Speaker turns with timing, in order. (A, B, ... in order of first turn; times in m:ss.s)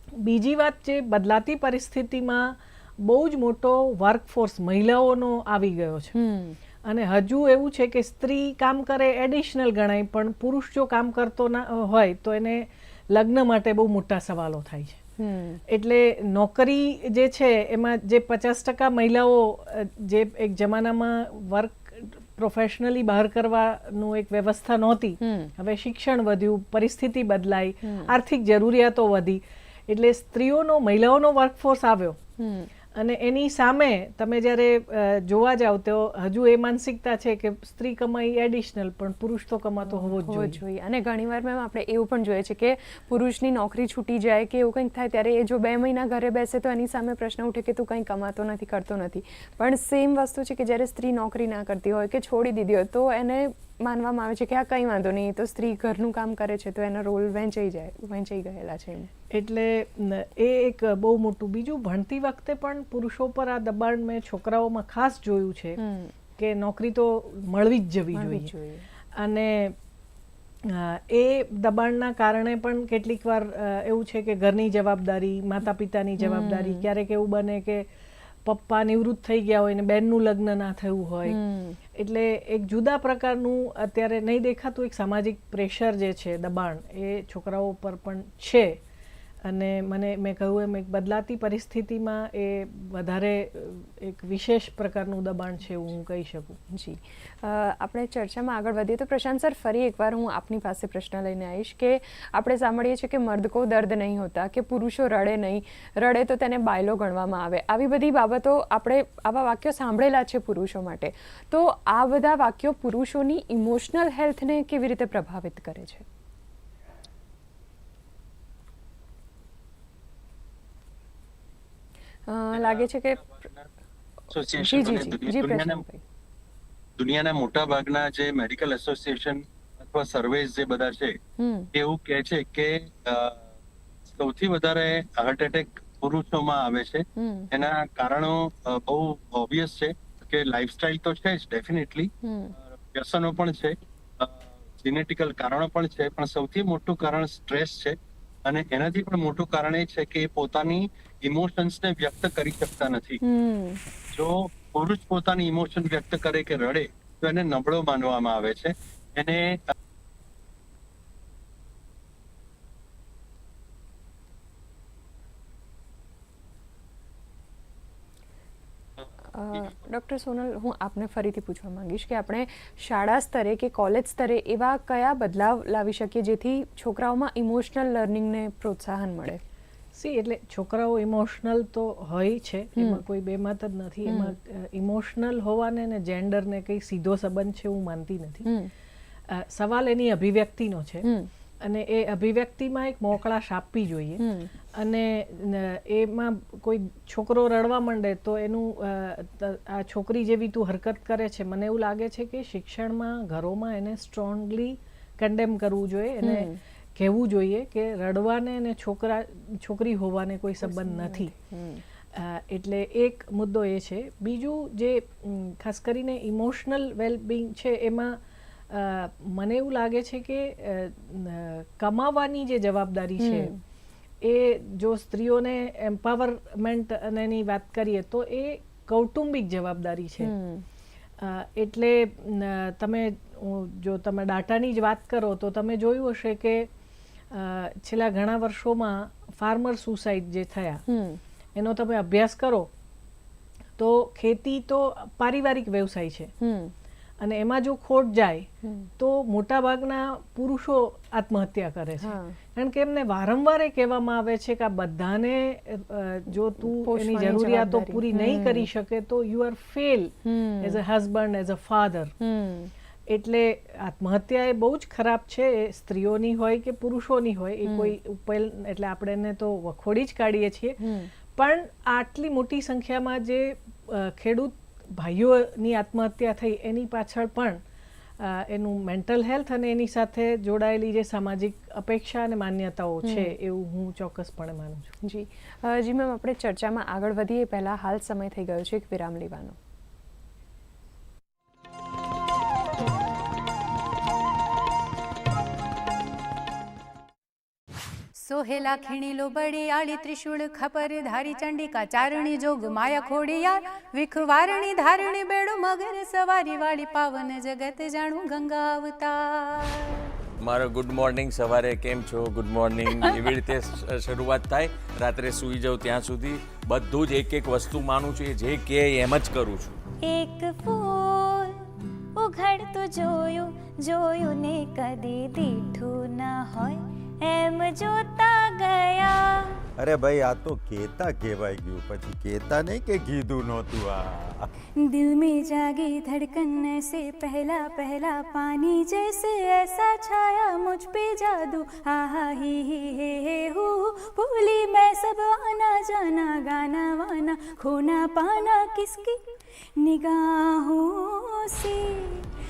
0:00.2-0:06.1 A
0:06.1-0:06.6 B
0:06.8-0:15.0 A
0:15.2-0:15.6 B
0:15.7-0:32.2 A
0:25.2-0:25.5 B
0:27.8-0:28.1 B
0:32.4-0:32.7 B
0:33.0-0:40.6 A
0:39.9-0:59.1 B
0:59.3-1:05.8 A
1:05.8-1:06.1 B
1:06.4-1:08.5 A
1:08.1-1:08.8 B
1:09.2-1:09.8 A
1:10.7-1:17.8 A
1:16.2-1:16.8 B
1:18.4-1:21.4 A
1:21.3-1:21.8 B
1:21.9-1:28.8 A
1:29.4-1:36.6 A
1:36.7-1:56.0 B
2:02.3-2:03.2 B
2:02.5-2:03.7 C
2:04.3-2:05.8 C
2:04.6-2:06.0 B
2:07.0-2:11.2 C
2:11.4-2:11.7 B
2:11.7-2:13.4 C
2:14.1-2:22.1 C
2:17.2-2:17.5 B
2:22.2-2:22.5 B
2:22.8-2:33.2 C
2:33.2-2:33.8 B
2:34.1-2:39.7 C
2:49.2-2:59.4 B
2:59.9-3:08.5 A
3:02.8-3:03.0 B
3:04.0-3:04.3 B
3:08.4-3:08.7 B
3:09.3-3:11.1 A
3:11.0-3:11.3 B
3:11.6-3:14.2 A
3:14.2-3:14.5 B
3:14.7-3:31.3 A
3:26.2-3:26.6 B
3:30.6-3:31.8 B
3:32.1-3:38.2 A
3:38.7-3:43.5 A
3:43.2-3:43.6 B
3:44.2-3:50.3 A
3:50.2-3:50.6 B
3:51.2-3:56.7 A
3:57.3-4:00.8 A
4:00.9-4:01.2 B
4:01.6-4:02.7 A
4:03.8-4:06.3 A
4:06.4-4:06.7 B
4:07.2-4:08.5 A
4:08.6-4:08.9 B
4:09.0-4:22.1 A
4:12.0-4:12.4 B
4:16.6-4:18.7 B
4:20.2-4:20.8 B
4:22.2-4:22.7 B
4:23.1-4:30.8 A
4:27.6-4:28.0 B
4:30.8-4:31.1 B
4:31.3-4:37.6 A
4:38.2-4:44.9 A
4:43.0-4:43.3 B
4:45.0-4:49.6 B
4:58.2-5:10.0 D
5:10.4-5:19.8 E
5:20.0-5:21.5 F
5:22.2-5:29.4 F
5:29.8-5:34.4 G
5:34.9-5:49.2 F
5:49.8-5:52.2 F